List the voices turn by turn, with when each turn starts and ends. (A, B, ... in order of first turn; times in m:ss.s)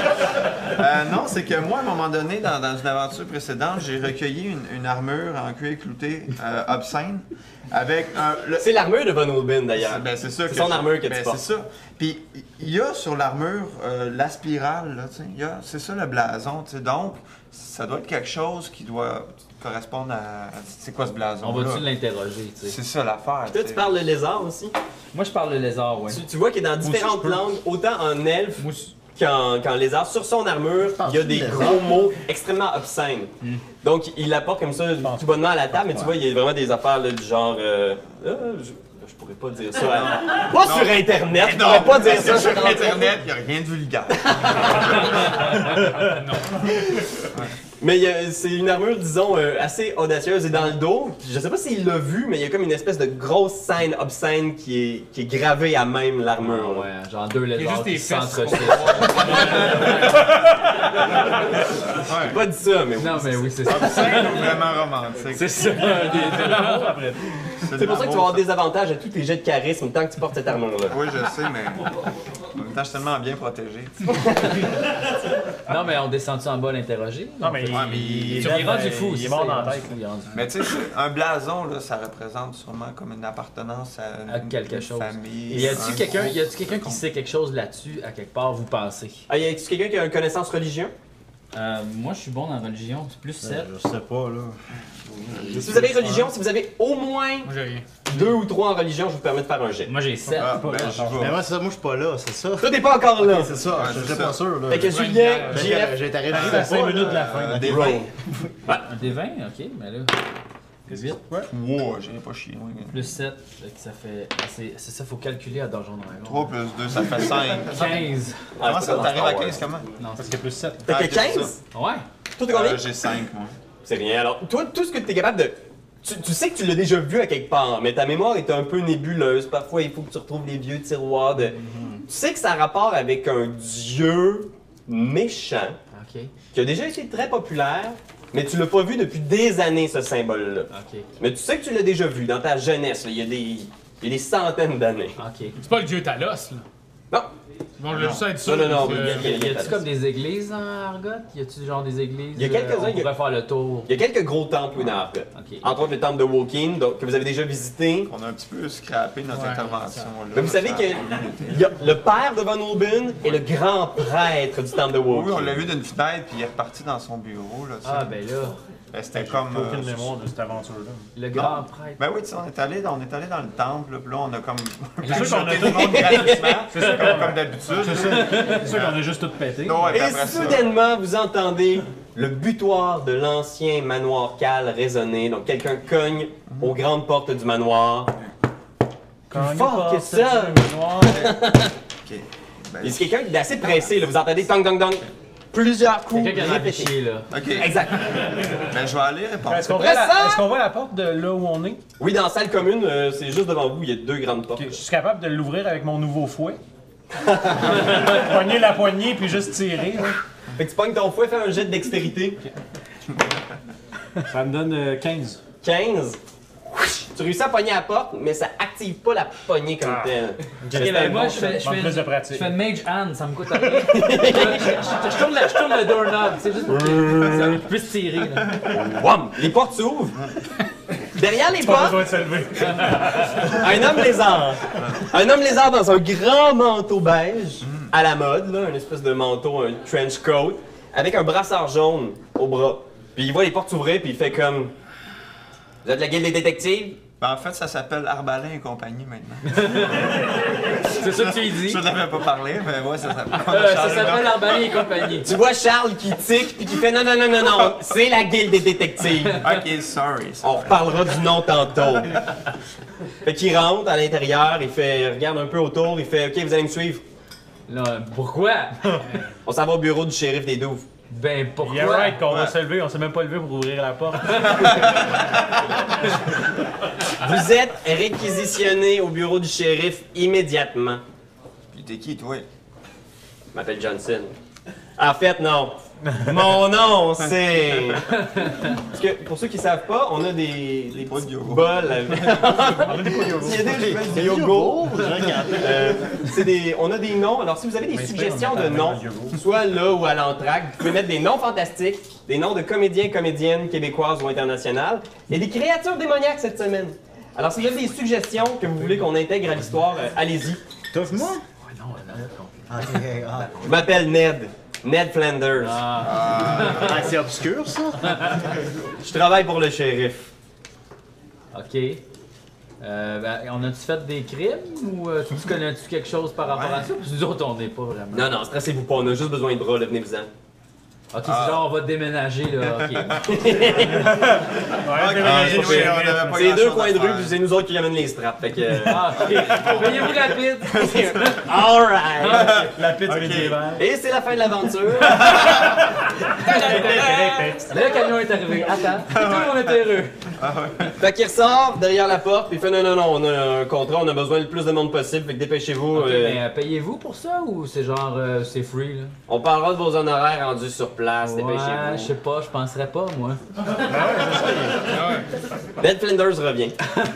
0:00.6-0:08.7 A
0:08.6-0:11.4 B
0:09.8-0:21.9 A
0:21.4-0:22.8 C
0:22.6-0:23.9 A
0:23.5-0:24.8 B
0:25.1-0:26.2 C
0:26.1-0:43.2 B
0:26.9-0:27.4 D
0:28.6-0:28.9 E
0:31.0-0:31.9 F
0:35.0-0:36.1 D
0:39.8-0:45.4 A
0:44.2-0:45.3 B
0:45.7-0:46.6 E
0:46.7-0:47.0 B
0:47.8-0:56.9 B
0:56.4-1:00.2 C
0:57.6-1:00.3 E
1:01.9-1:02.4 A
1:02.3-1:04.2 B
1:03.0-1:04.6 C
1:03.6-1:05.8 A
1:05.3-1:06.9 C
1:05.7-1:07.5 D
1:06.2-1:06.9 E
1:07.6-1:08.4 A
1:07.8-1:11.0 B
1:10.9-1:11.9 A
1:12.6-1:14.3 A
1:15.7-1:20.5 C
1:17.4-1:20.0 D
1:17.7-1:18.8 A
1:20.3-1:27.0 A
1:24.3-1:29.2 C
1:25.5-1:25.9 B
1:29.3-1:30.9 B
1:31.5-1:33.7 C
1:33.4-1:34.6 F
1:35.1-1:36.2 F
1:35.3-1:35.8 A
1:35.5-1:37.5 B
1:37.4-1:37.9 E
1:38.1-1:39.9 B
1:39.9-1:41.2 C
1:40.3-1:41.2 D
1:40.3-1:41.4 A
1:41.2-1:48.1 F
1:42.6-1:43.6 B
1:43.7-1:44.5 A
1:44.7-1:46.0 B
1:44.9-1:45.7 E
1:46.3-1:47.9 D
1:46.3-1:48.1 A
1:47.6-1:48.1 B
1:48.7-1:50.1 C
1:50.9-1:51.5 D
1:50.9-1:51.2 C
1:51.5-1:53.1 A
1:52.9-1:56.5 C
1:56.2-1:59.9 A
1:57.7-1:58.4 C
1:58.6-1:59.7 B
2:00.0-2:00.4 C
2:00.2-2:00.9 D
2:00.9-2:01.6 B
2:00.9-2:01.5 A
2:01.7-2:02.0 C
2:02.4-2:02.8 B
2:02.5-2:03.6 A
2:03.8-2:15.8 B
2:15.9-2:16.3 C
2:16.5-2:25.2 B
2:20.7-2:21.1 C
2:25.2-2:25.6 C
2:25.6-2:26.6 E
2:27.8-2:29.3 E
2:27.9-2:28.3 A
2:28.4-2:29.8 B
2:28.8-2:33.9 C
2:32.4-2:33.1 B
2:33.9-2:38.1 B
2:35.4-2:35.7 C
2:38.1-2:41.6 A
2:39.3-2:39.9 E
2:40.3-2:45.7 B
2:45.1-2:48.2 A
2:47.8-2:48.6 C
2:48.9-2:50.1 A
2:49.1-2:51.1 D
2:51.2-2:52.0 C
2:51.3-2:59.1 A
2:55.0-3:00.0 D
2:55.2-2:56.7 B
2:59.6-3:00.7 A
2:59.9-3:08.2 B
3:06.5-3:06.8 A
3:09.3-3:11.3 D
3:09.3-3:11.7 B
3:12.0-3:13.1 A
3:12.8-3:16.9 B
3:16.1-3:17.3 C
3:17.3-3:17.8 A
3:17.6-3:18.3 B
3:18.5-3:19.8 A
3:19.5-3:21.8 D
3:19.7-3:20.4 B
3:22.0-3:24.8 B
3:24.6-3:26.6 D
3:27.2-3:28.1 B
3:27.6-3:30.2 D
3:30.6-3:32.4 B
3:34.3-3:35.4 D
3:35.6-3:36.2 B
3:36.7-3:41.6 B
3:40.6-3:42.6 D
3:40.7-3:48.7 C
3:43.9-3:44.8 B
3:46.8-3:47.6 B
3:48.6-3:50.2 B
3:51.2-3:52.0 B
3:51.6-3:53.9 D
3:53.2-4:04.7 B
3:54.8-3:55.1 A
3:57.6-3:57.9 A
4:05.8-4:07.0 B
4:07.2-4:14.8 A
4:09.5-4:10.2 C
4:10.9-4:11.8 C
4:13.5-4:15.3 C
4:15.2-4:19.5 B
4:19.4-4:21.0 A
4:20.4-4:22.2 B
4:23.2-4:27.0 B
4:27.7-4:29.2 C
4:29.4-4:30.9 B
4:31.1-4:32.2 C
4:31.6-4:34.8 D
4:32.3-4:32.6 A
4:34.4-4:35.4 A
4:37.2-4:41.0 B
4:41.7-4:42.5 A
4:43.5-4:44.4 B
4:45.0-4:48.1 B
4:48.2-4:48.7 C
4:48.8-5:10.6 B
4:50.9-4:52.3 A
4:52.7-4:53.9 D
4:53.5-4:56.2 F
4:57.9-4:59.4 D
5:10.9-5:11.4 F
5:11.6-5:13.7 C
5:12.7-5:13.6 F
5:13.6-5:15.8 B
5:15.6-5:17.0 C
5:16.0-5:17.1 A
5:16.7-5:18.3 F
5:19.0-5:20.3 B
5:21.5-5:22.0 C
5:22.8-5:28.3 C
5:26.4-5:26.9 A
5:28.1-5:30.3 B
5:31.1-5:33.3 C
5:31.2-5:31.7 A
5:33.2-5:34.2 B
5:34.0-5:36.4 D
5:34.9-5:37.4 A
5:35.2-5:40.1 B
5:38.9-5:41.2 C
5:39.1-5:41.4 A
5:40.7-5:42.7 B
5:42.2-5:43.7 A
5:42.2-5:42.5 C
5:42.5-5:43.8 D
5:43.8-5:45.8 B
5:46.4-5:47.5 E
5:46.4-5:48.0 D
5:46.5-5:46.9 C
5:46.5-5:47.2 B
5:47.7-5:50.1 C
5:49.1-5:51.0 A
5:51.0-5:56.4 B
5:55.9-5:59.1 C
5:59.3-6:02.1 B
6:01.2-6:03.4 C
6:03.8-6:04.9 D
6:04.9-6:05.3 E
6:05.8-6:06.8 B